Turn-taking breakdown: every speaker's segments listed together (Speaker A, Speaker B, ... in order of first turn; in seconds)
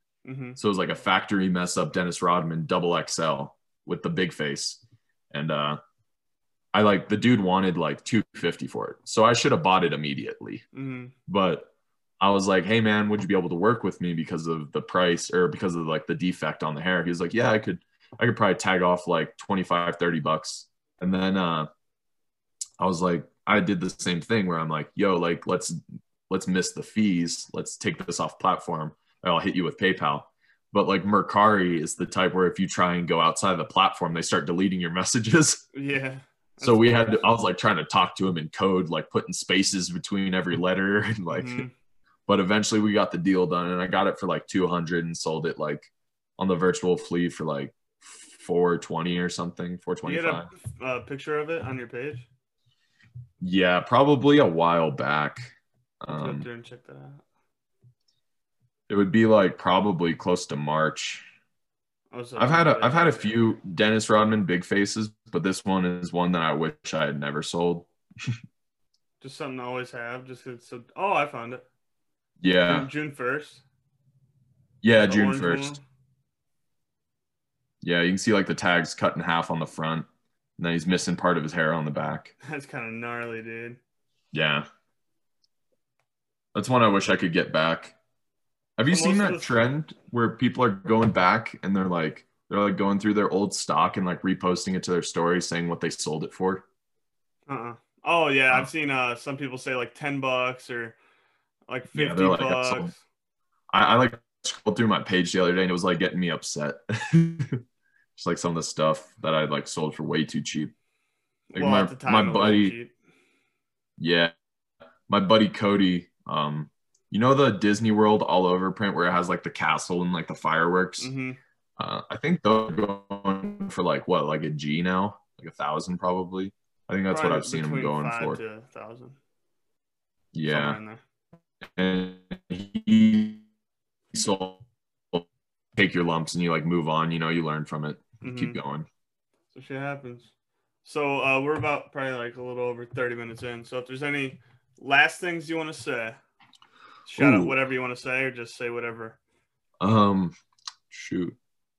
Speaker A: 0.2-0.6, 10.7-11.1, 35.7-37.2, 41.3-41.7, 50.0-52.3, 56.1-57.2, 62.1-63.3, 69.2-71.6, 72.7-73.6, 75.0-75.8, 82.4-83.8, 88.9-89.5, 97.5-101.0, 101.7-103.0, 111.5-112.9, 121.0-121.4, 127.1-129.2, 130.5-131.0, 138.2-138.6, 139.5-140.3, 140.8-146.2, 147.1-149.2
Speaker B: 0.6-5.8, 6.7-10.6, 11.3-21.7, 22.8-25.7, 26.3-35.6, 36.6-41.6, 42.3-50.5, 53.4-56.5, 58.9-61.3, 62.4-68.3, 72.4-72.9, 74.8-75.8, 77.8-80.1, 80.6-82.3, 84.3-84.7, 86.5-87.9, 88.8-96.6, 101.9-102.9, 103.7-107.6, 108.2-110.7, 111.5-112.7, 114.0-114.3, 115.1-121.1, 121.8-128.4, 130.3-130.8, 131.8-133.4, 134.1-138.9, 147.2-147.6, 149.8-150.3, 150.9-151.4